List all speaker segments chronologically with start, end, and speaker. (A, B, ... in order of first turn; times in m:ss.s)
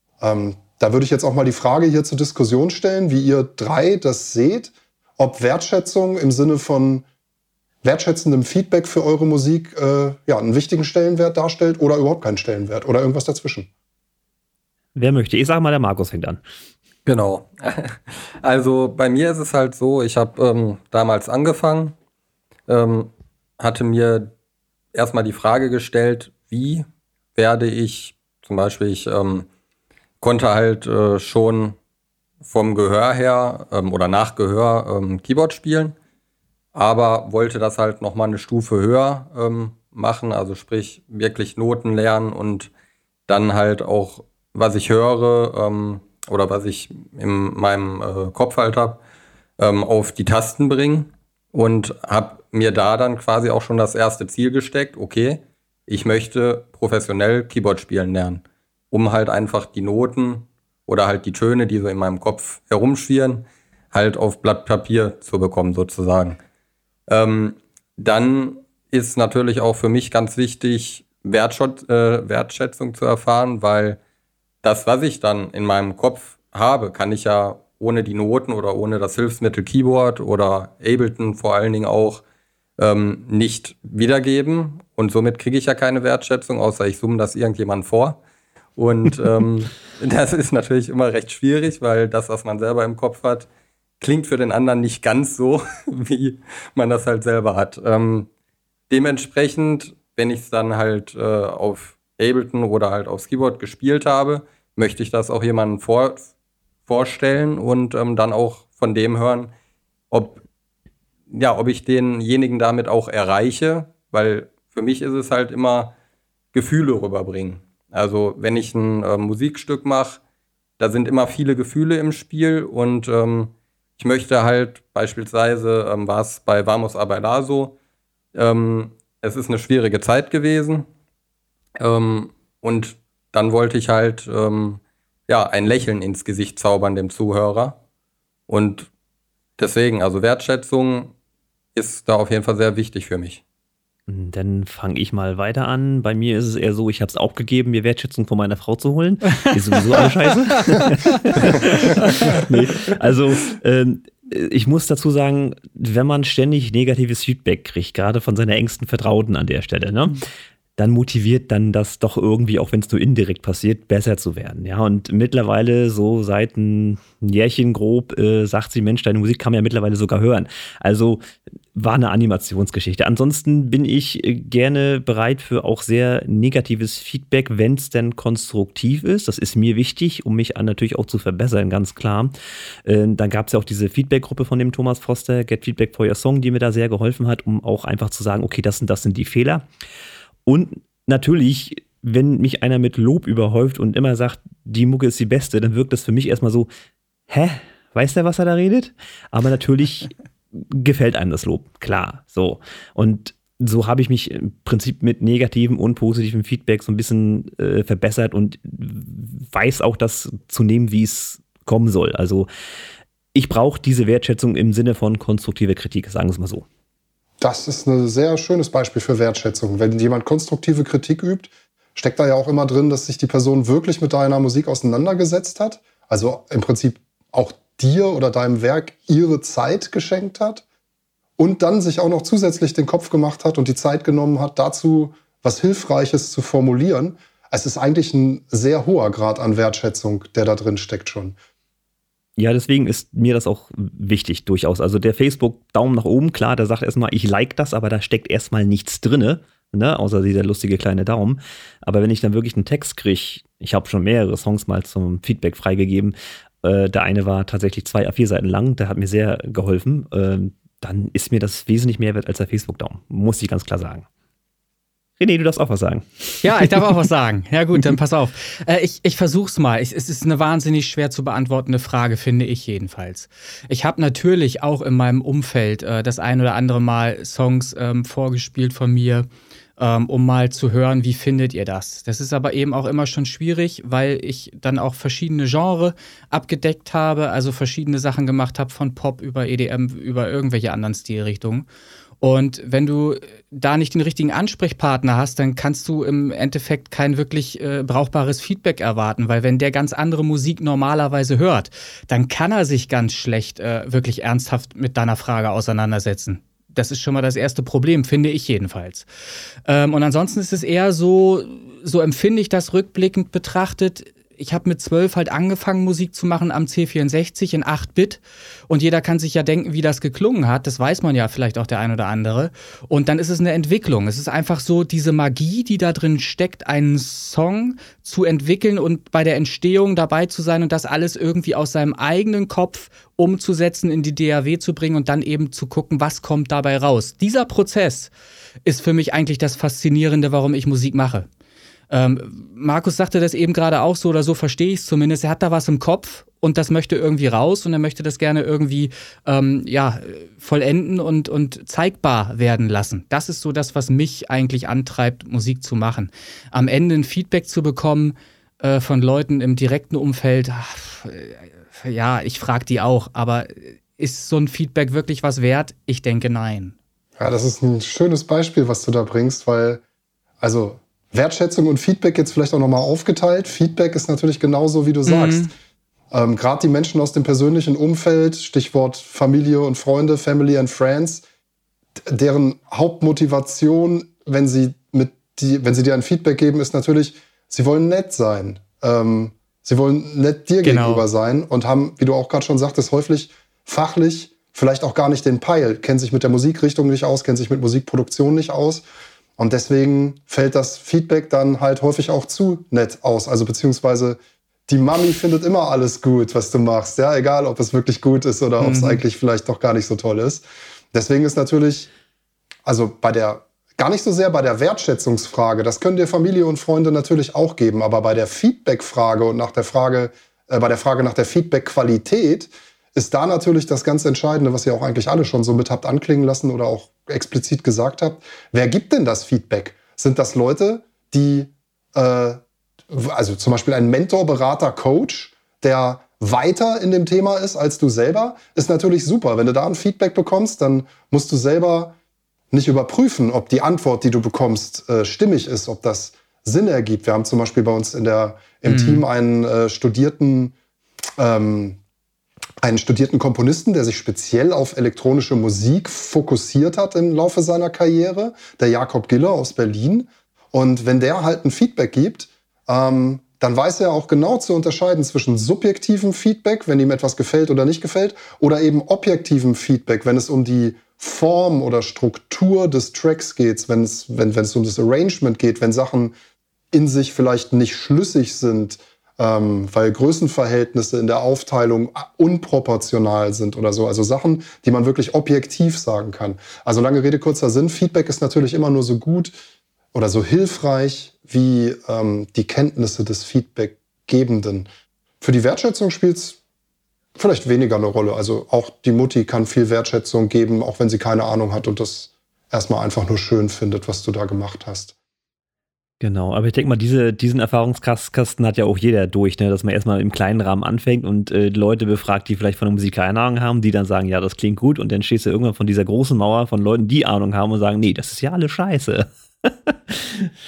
0:00.2-0:07.0 A
0:07.8-0:13.7 A
0:15.0-0:16.4 B
0:17.0-0:21.9 C
0:22.7-0:24.3 C
0:24.9-0:26.8 C
0:27.4-0:29.5 C
0:30.2-0:31.8 C
0:32.4-0:36.0 C
0:36.7-0:42.7 C
0:43.3-0:49.0 C
0:49.6-1:06.4 C
1:07.1-1:14.0 C
1:14.6-1:22.2 C
1:22.8-1:28.2 C
1:28.8-1:33.5 C
1:34.0-1:38.3 C
1:38.9-1:46.2 C
1:46.9-1:49.5 C
1:50.1-1:50.4 C
1:51.3-1:55.9 C
1:56.5-2:00.2 C
2:00.8-2:07.8 C
2:08.3-2:10.9 C
2:11.8-2:17.8 C
2:18.5-2:18.9 C
2:19.6-2:21.1 C
2:21.7-2:23.4 C
2:24.1-2:40.2 B
2:31.9-2:32.4 D
2:40.8-2:51.2 B
2:51.7-3:02.3 B
3:02.8-3:09.7 B
3:10.4-3:16.7 B
3:17.3-3:32.5 B
3:33.3-3:36.6 B
3:37.4-3:50.6 A
3:51.4-4:01.4 A
4:02.4-4:24.0 B
4:25.2-4:26.4 B
4:26.4-4:39.3 D
4:39.8-4:51.7 D
4:52.2-5:09.1 D
5:09.6-5:38.1 D
5:38.6-5:41.3 D
5:41.9-6:06.8 D
6:07.2-6:09.8 A
6:10.4-6:15.5 A
6:15.1-6:15.5 D
6:16.1-6:21.2 A
6:22.0-6:38.8 A
6:30.6-6:31.0 D
6:39.4-6:51.9 A
6:48.6-6:49.0 D
6:52.6-7:21.9 A
7:22.5-7:30.5 A
7:28.6-7:29.0 D
7:31.2-7:31.8 A
7:32.6-7:56.1 A
7:56.7-8:09.3 A
8:09.9-8:14.7 A
8:15.2-8:16.4 A
8:17.2-8:24.9 A
8:26.0-8:40.3 B